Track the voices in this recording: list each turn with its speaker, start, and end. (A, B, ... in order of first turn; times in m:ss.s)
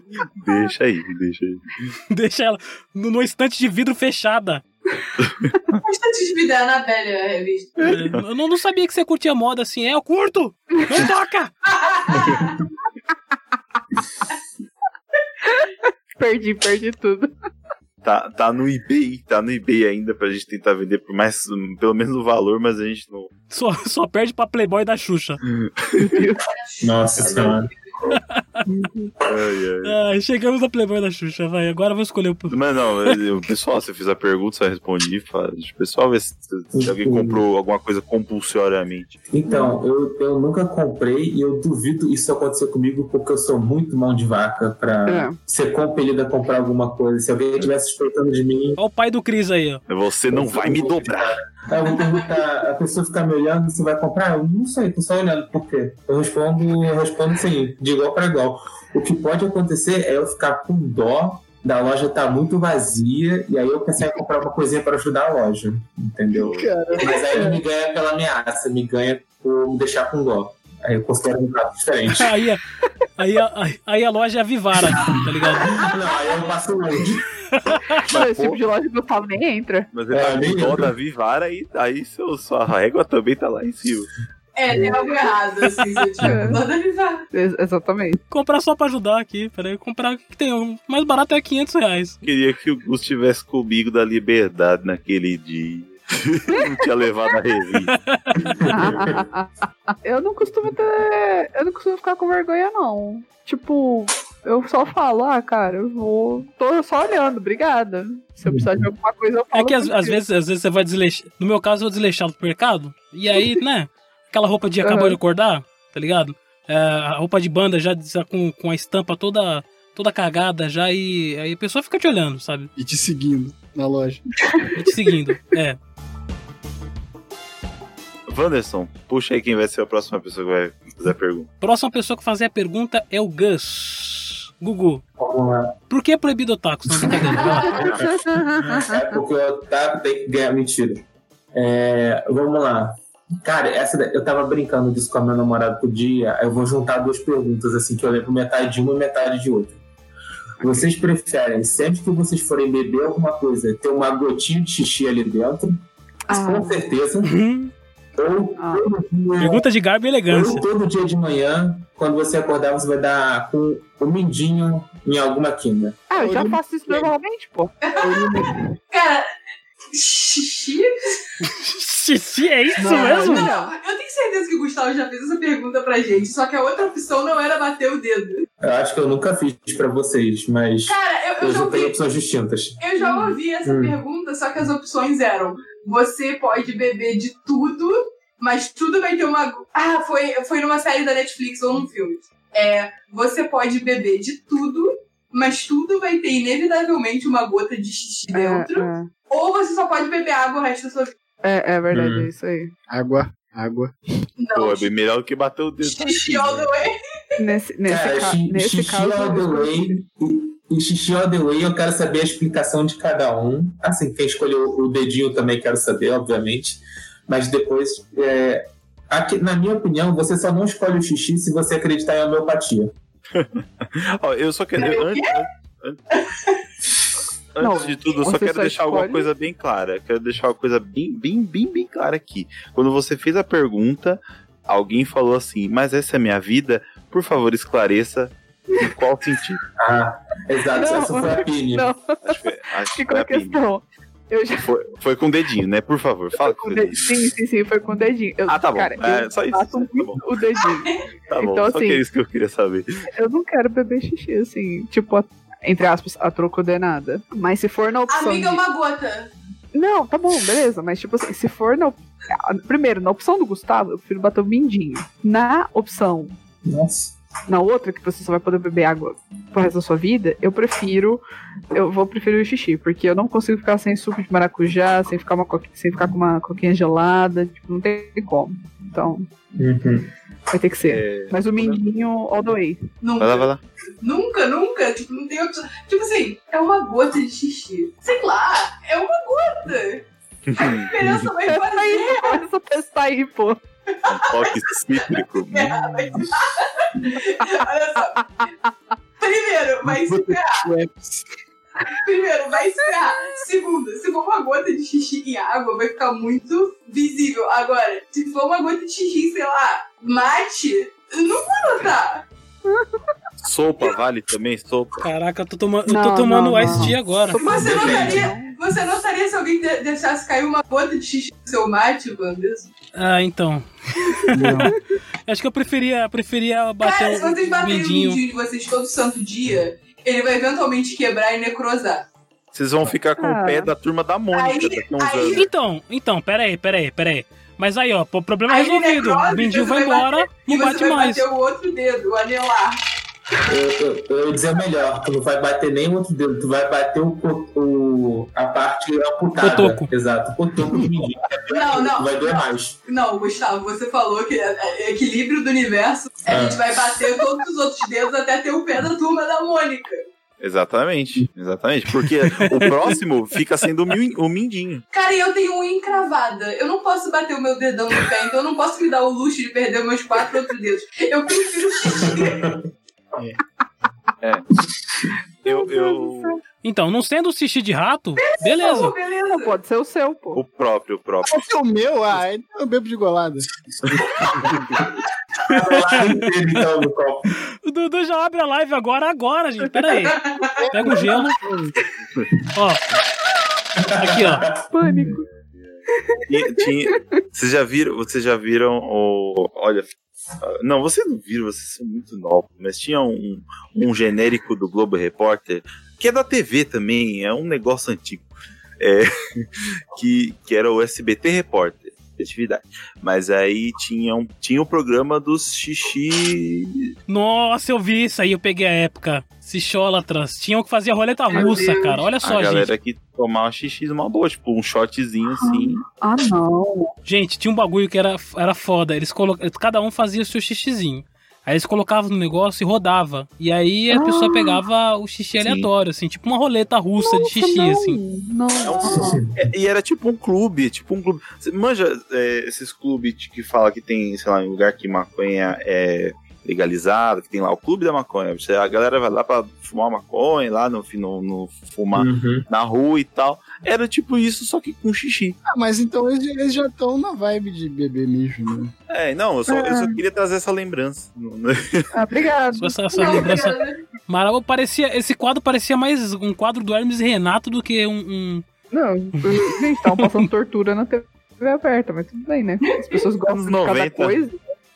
0:00.2-0:01.9 A
0:02.1-0:04.6 B
0:05.2-0:05.8 A
0:05.8-0:07.8 C
0:07.8-0:08.2 A
0:07.9-0:11.5 B
0:11.7-0:12.6 C
0:15.4-0:17.3 D
0:18.0-0:23.3 A
0:23.5-0:25.4 B
0:25.5-0:26.3 A
0:26.0-0:26.4 D
0:26.6-0:27.6 C
0:26.8-0:27.7 E
0:27.2-0:27.6 A
0:28.1-0:28.6 B
0:28.7-0:29.1 D
0:29.2-0:30.0 A
0:29.8-0:33.2 B
0:32.5-0:39.2 A
0:36.8-0:37.4 E
0:39.3-0:48.8 E
0:39.5-0:39.8 D
0:45.1-0:45.4 D
0:48.8-0:49.8 B
0:49.9-0:51.4 A
0:50.3-1:12.3 E
0:51.8-0:52.3 C
1:06.4-1:06.7 A
1:06.4-1:07.6 F
1:12.2-1:12.6 B
1:13.2-1:15.8 B
1:15.0-1:17.3 E
1:16.0-1:16.4 C
1:17.5-1:18.0 B
1:18.0-1:19.9 D
1:18.0-1:18.6 A
1:19.9-1:24.1 A
1:20.1-1:20.9 E
1:24.6-1:27.2 C
1:26.2-1:26.6 D
1:26.2-1:26.6 E
1:27.3-1:28.2 D
1:28.3-1:32.2 B
1:32.2-1:37.9 A
1:37.9-1:38.4 B
1:38.5-1:39.2 E
1:38.7-1:50.2 D
1:48.5-1:48.9 E
1:49.5-2:02.7 B
1:54.8-1:55.2 D
2:02.8-2:04.3 F
2:04.8-2:05.8 B
2:08.3-2:11.5 A
2:11.6-2:15.0 B
2:15.2-2:15.8 E
2:15.9-2:17.9 B
2:17.0-2:21.0 E
2:17.4-2:17.8 C
2:17.7-2:19.2 D
2:21.5-2:29.8 E
2:30.6-2:35.8 E
2:36.3-2:36.8 D
2:36.3-2:37.4 E
2:37.2-2:37.7 B
2:38.2-2:39.6 E
2:38.6-2:38.9 D
2:39.4-2:40.6 B
2:40.3-2:46.0 E
2:46.1-2:48.7 D
2:46.2-2:47.1 F
2:47.8-2:49.3 C
2:48.0-2:48.4 F
2:49.9-2:51.2 C
2:51.4-2:53.5 B
2:52.8-2:53.7 D
2:52.8-2:58.5 C
2:53.0-2:53.3 F
2:58.6-3:02.8 E
3:00.9-3:02.0 C
3:02.8-3:21.2 C
3:03.0-3:03.4 D
3:03.6-3:04.0 E
3:18.3-3:19.1 D
3:21.4-3:22.7 D
3:21.9-3:22.3 E
3:22.9-3:23.9 F
3:24.4-3:24.9 C
3:24.6-3:26.7 A
3:25.8-3:27.0 C
3:27.4-3:30.0 D
3:27.9-3:42.9 E
3:43.3-3:46.0 A
3:44.8-3:45.4 C
3:46.1-3:46.6 C
3:47.5-3:59.6 A
3:47.6-3:49.3 D
3:59.8-4:01.9 E
4:00.7-4:04.7 D
4:02.2-4:03.6 A
4:04.6-4:07.2 A
4:06.4-4:12.0 D
4:08.5-4:10.2 A
4:10.7-4:11.1 C
4:11.3-4:13.1 A
4:13.1-4:18.6 D
4:18.1-4:19.3 C
4:19.7-4:26.3 D
4:26.6-4:27.1 E
4:27.5-4:39.3 D
4:39.6-4:40.1 E
4:40.5-4:42.8 D
4:40.9-4:41.8 A
4:43.0-4:43.5 C
4:43.2-4:43.6 A
4:44.0-4:50.1 C
4:50.5-4:51.3 A
4:50.6-4:52.4 C
4:51.4-4:53.6 D
4:54.1-4:54.6 C
4:54.1-4:56.0 A
4:55.5-4:58.4 C
4:57.2-4:57.6 D
4:59.2-5:00.7 C
5:00.1-5:01.3 F
5:01.9-5:12.3 C
5:12.7-5:13.0 D
5:13.4-5:15.0 A
5:15.0-5:17.4 B
5:15.9-5:18.6 D
5:17.4-5:22.7 C
5:17.4-5:18.3 E
5:22.9-5:24.8 B
5:24.3-5:24.7 F
5:24.4-5:24.7 E
5:25.3-5:28.2 B
5:26.8-5:32.1 C
5:32.5-5:35.4 A
5:33.2-5:33.7 D
5:34.3-5:35.5 C
5:35.3-5:41.2 B
5:38.5-5:42.8 C
5:43.5-5:52.8 E
5:49.4-5:49.9 B
5:51.5-6:00.0 C
5:56.3-5:56.7 E
6:00.4-6:04.8 A
6:04.9-6:12.5 C
6:12.0-6:12.6 E
6:13.2-6:13.4 F
6:14.2-6:14.5 A
6:15.4-6:16.4 A
6:15.5-6:16.4 D
6:16.6-6:18.9 B
6:18.2-6:19.6 C
6:19.3-6:20.4 D
6:20.4-6:21.4 A
6:21.3-6:24.4 F
6:25.4-6:27.3 E
6:25.5-6:26.2 B
6:27.6-6:31.4 B
6:30.0-6:30.5 C
6:30.6-6:31.8 F
6:32.5-6:32.8 B
6:33.8-6:34.6 E
6:34.0-6:34.5 B
6:34.7-6:35.3 D
6:35.1-6:39.9 A
6:35.9-6:37.0 D
6:40.4-6:48.3 A
6:48.8-6:56.9 A
6:57.1-7:02.7 B
7:01.3-7:02.0 D
7:01.4-7:01.7 C
7:02.2-7:05.8 A
7:05.4-7:06.9 D
7:07.0-7:18.0 B
7:13.9-7:14.6 D
7:15.4-7:15.7 A
7:17.0-7:19.2 D
7:18.6-7:35.4 A
7:18.8-7:19.5 E
7:31.9-7:32.5 E
7:35.5-7:38.7 F
7:38.9-7:41.9 A
7:39.5-7:40.0 D
7:41.9-7:43.5 D
7:42.6-7:48.4 B
7:42.9-7:43.8 C
7:48.7-7:54.4 D
7:49.2-7:50.3 B
7:52.6-7:53.0 C
7:53.3-7:54.2 A